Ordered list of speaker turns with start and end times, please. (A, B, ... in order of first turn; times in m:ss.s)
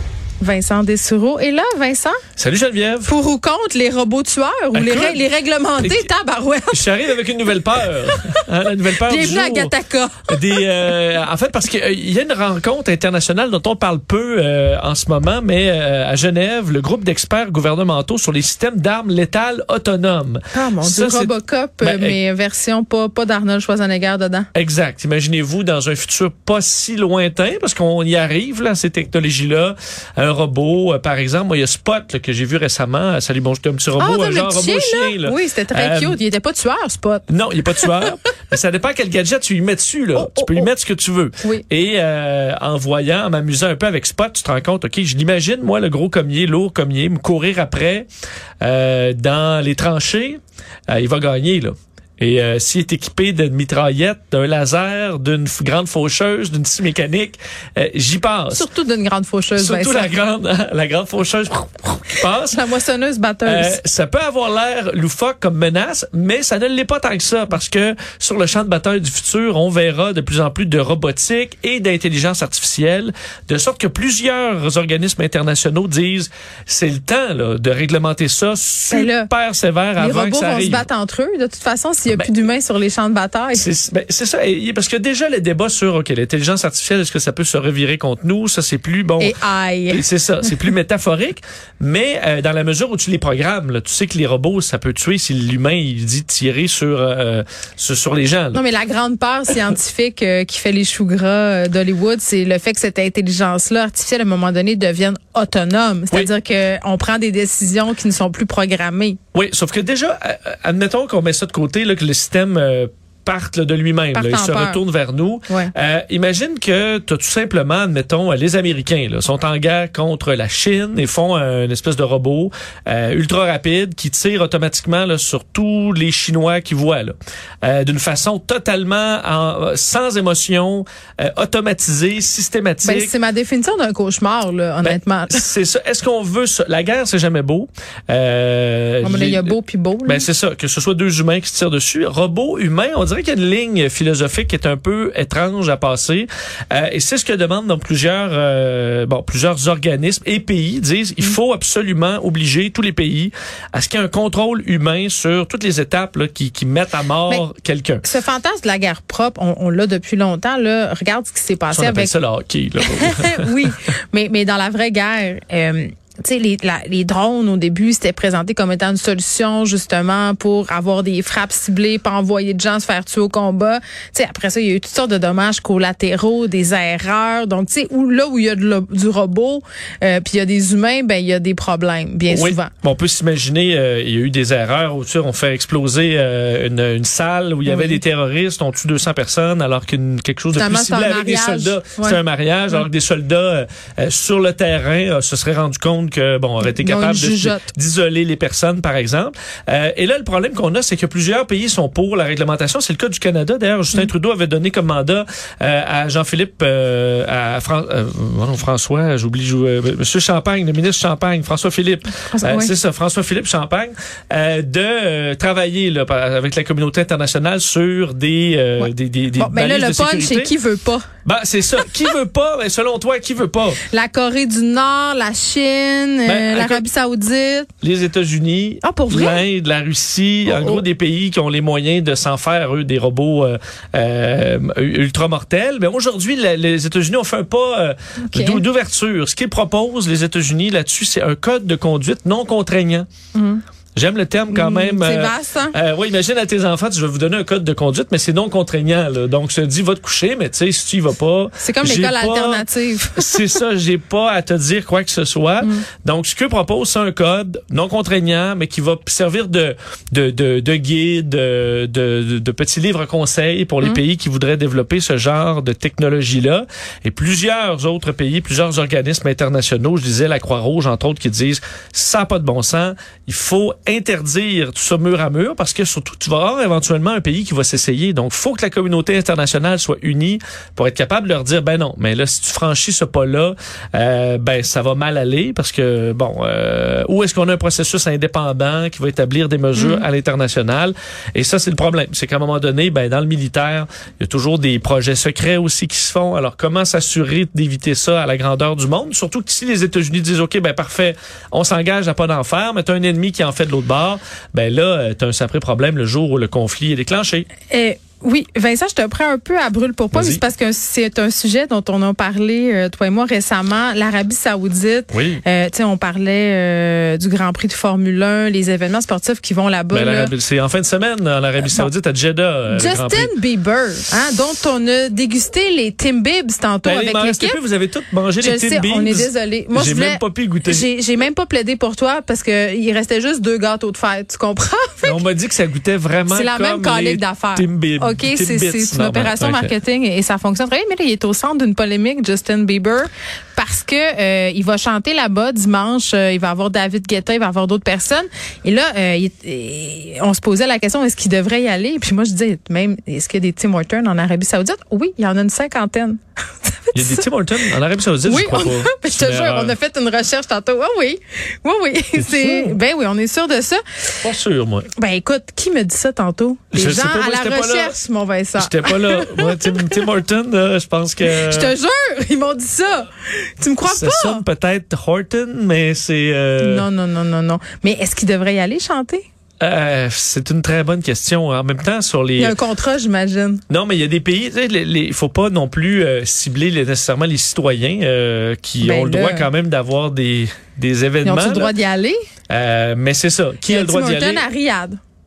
0:00.4-0:02.2 A
0:02.4-0:03.1 B
0:03.0-0:07.0 A
0:04.7-0:05.2 B
0:05.8-0:06.1 B
0:06.7-0:09.7 B
0:08.1-0:08.4 A
0:09.0-0:10.6 A
0:10.3-0:22.2 B
0:20.5-0:24.5 A
0:24.5-0:36.2 B
0:34.0-0:38.1 A
0:37.3-0:48.1 B
0:40.2-0:40.7 A
0:48.6-0:58.6 B
0:58.5-1:00.1 A
0:59.6-1:02.6 B
1:02.4-1:03.8 A
1:03.4-1:20.9 B
1:18.9-1:19.3 A
1:20.0-1:23.7 A
1:23.5-1:29.4 B
1:29.2-1:30.1 A
1:29.9-1:38.6 B
1:38.5-1:49.2 A
1:49.3-2:13.1 B
1:54.1-1:54.8 A
2:12.8-2:15.4 A
2:14.8-2:19.5 B
2:19.0-2:20.2 A
2:20.0-2:38.0 B
2:38.0-2:42.1 A
2:41.7-2:43.7 B
2:42.8-3:02.7 A
3:02.3-3:40.5 B
3:07.6-3:08.0 A
3:10.5-3:12.2 A
3:16.6-3:17.7 A
3:32.3-3:32.7 A
3:39.4-3:41.0 A
3:41.2-3:43.8 B
3:43.9-3:47.7 A
3:46.2-3:46.8 B
3:47.8-4:03.1 B
3:48.8-3:49.4 A
3:50.4-3:50.8 A
3:58.2-3:58.6 A
4:03.3-4:03.6 A
4:04.0-5:07.5 B
4:04.5-4:05.8 A
4:11.6-4:13.6 A
4:49.7-4:50.0 A
5:07.7-5:20.3 A
5:10.1-5:10.4 B
5:15.1-5:15.4 B
5:19.9-5:23.3 B
5:21.6-5:21.9 A
5:22.7-5:27.6 A
5:26.8-5:30.9 B
5:28.4-5:35.2 A
5:35.0-5:39.7 B
5:36.3-5:57.3 A
5:56.9-5:59.8 B
5:58.2-6:04.2 A
6:02.2-6:02.8 B
6:04.2-6:04.9 B
6:04.9-6:10.1 A
6:06.7-6:08.0 B
6:08.6-6:11.7 B
6:11.3-6:14.4 A
6:13.8-6:16.9 B
6:16.6-6:19.2 A
6:19.6-6:22.6 B
6:22.4-6:23.6 A
6:23.7-6:31.7 B
6:28.8-6:29.5 A
6:31.2-6:32.2 A
6:32.5-6:34.4 B
6:33.6-6:35.0 A